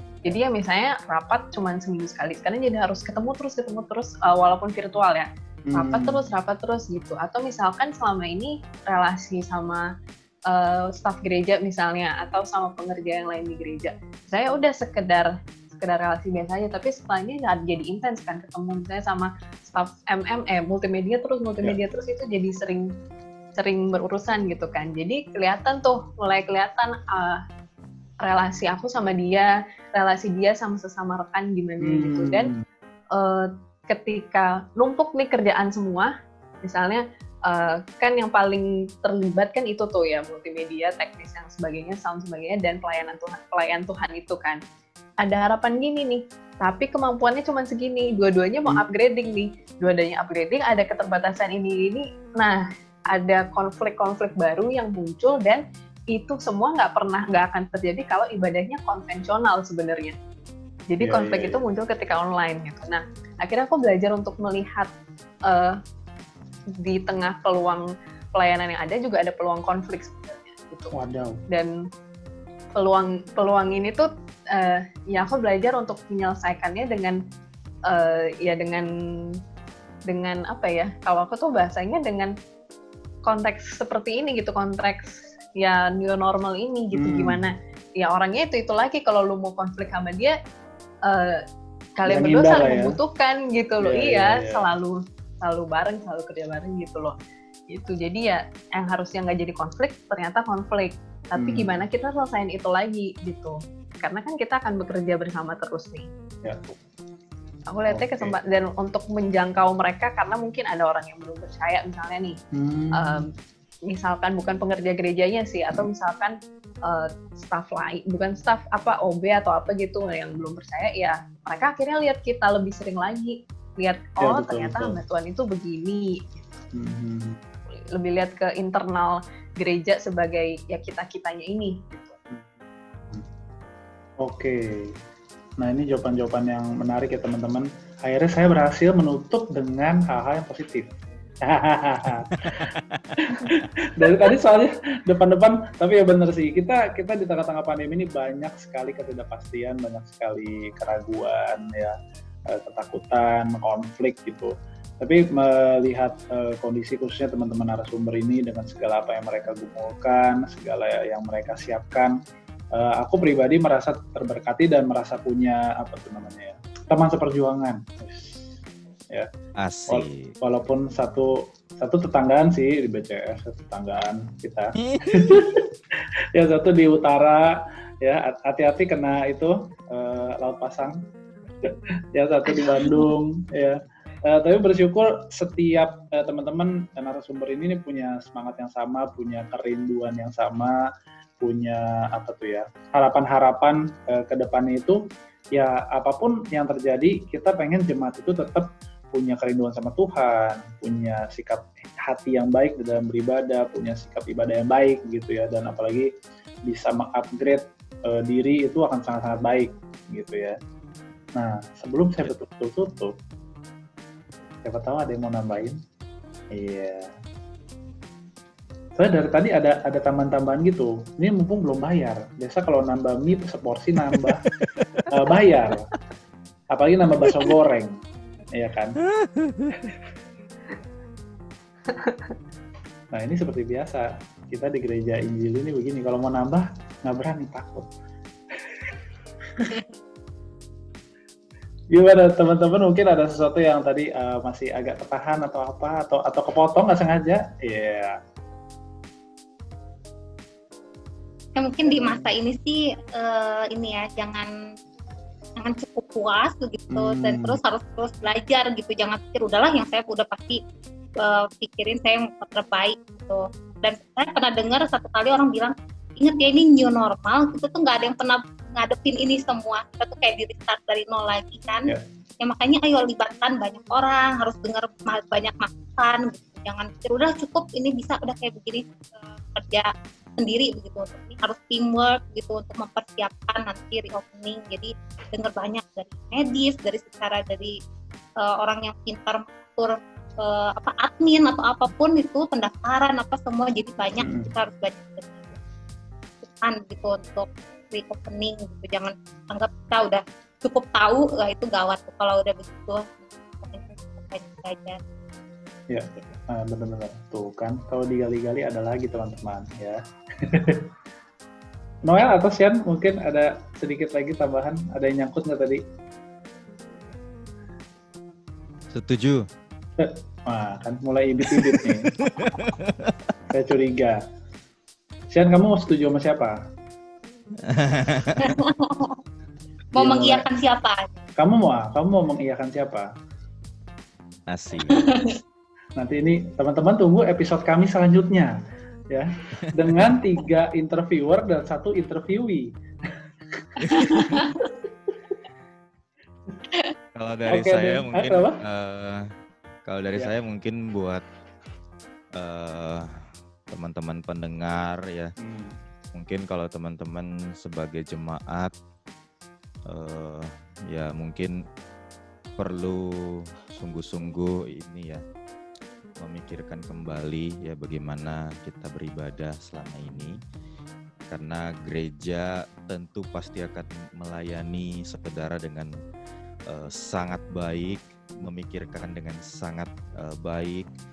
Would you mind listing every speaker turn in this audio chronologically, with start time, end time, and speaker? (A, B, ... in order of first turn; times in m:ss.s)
0:00.2-0:09.8 A
0:05.7-0:06.2 B
0:10.5-0:22.9 A
0:23.6-0:27.4 A
0:28.2-0:32.5 A
0:31.8-0:32.6 B
0:33.2-0:36.1 A
0:36.6-0:44.6 A
0:45.2-1:00.2 A
1:00.9-1:04.9 A
1:01.0-1:01.6 B
1:05.5-1:05.8 A
1:06.8-1:10.9 A
1:10.9-1:11.4 B
1:12.8-1:17.2 A
1:17.9-1:18.9 A
1:20.1-1:22.3 A
1:23.2-1:30.4 A
1:27.0-1:27.5 B
1:31.1-1:31.4 A
1:32.0-1:37.2 A
1:32.1-1:33.0 B
1:33.8-1:34.7 B
1:37.7-1:46.1 A
1:41.4-1:41.8 B
1:46.4-1:46.8 B
1:47.7-1:52.4 A
1:47.9-1:48.4 B
1:52.5-1:53.3 B
1:53.0-1:53.3 A
1:53.9-2:06.2 A
2:04.2-2:05.0 B
2:06.7-2:07.4 B
2:07.7-2:12.2 A
2:14.2-2:15.0 B
2:15.6-2:32.0 B
2:22.4-2:23.7 C
2:32.5-2:42.2 B
2:42.7-2:48.5 B
2:49.6-2:50.4 C
2:49.9-2:55.7 B
2:54.8-2:55.5 C
2:56.4-3:01.0 B
3:01.6-3:10.8 B
3:11.4-3:26.1 B
3:26.7-3:30.6 B
3:31.4-3:33.1 B
3:34.6-3:35.8 B
3:36.5-3:37.1 B
3:39.0-3:44.4 B
3:44.2-3:45.1 C
3:45.1-3:45.9 B
3:46.7-3:48.0 B
3:48.6-3:49.0 B
3:49.1-3:49.9 C
3:51.9-3:52.3 A
3:53.1-3:57.9 B
4:01.9-4:08.2 B
4:11.6-4:14.5 D
4:11.9-4:12.3 B
4:15.6-4:20.6 D
4:16.9-4:17.6 B
4:21.2-4:47.8 D
4:48.4-4:55.6 D
4:54.1-4:54.5 B
4:56.4-5:05.0 D
5:05.9-5:10.9 B
5:12.0-5:15.8 B
5:18.9-5:19.5 C
5:20.0-5:22.1 B
5:21.5-5:23.2 C
5:23.5-5:24.2 B
5:25.3-5:26.6 B
5:27.6-5:28.6 C
5:28.4-5:29.2 D
5:29.9-5:31.1 D
5:30.0-5:30.5 B
5:31.4-5:33.1 B
5:34.5-5:35.1 C
5:34.9-5:35.4 D
5:36.0-5:38.6 B
5:39.1-5:42.7 B
5:39.8-5:40.1 C
5:43.6-5:44.5 B
5:43.8-5:44.5 C
5:44.1-5:44.6 D
5:47.2-5:49.3 C
5:47.5-5:48.6 B
5:49.9-5:51.2 C
5:52.4-5:55.3 C
5:55.4-5:55.8 B
5:56.2-5:58.7 C
5:59.9-6:01.6 C
6:02.6-6:05.2 C
6:06.2-6:10.4 C
6:11.3-6:15.9 C
6:16.7-6:20.9 C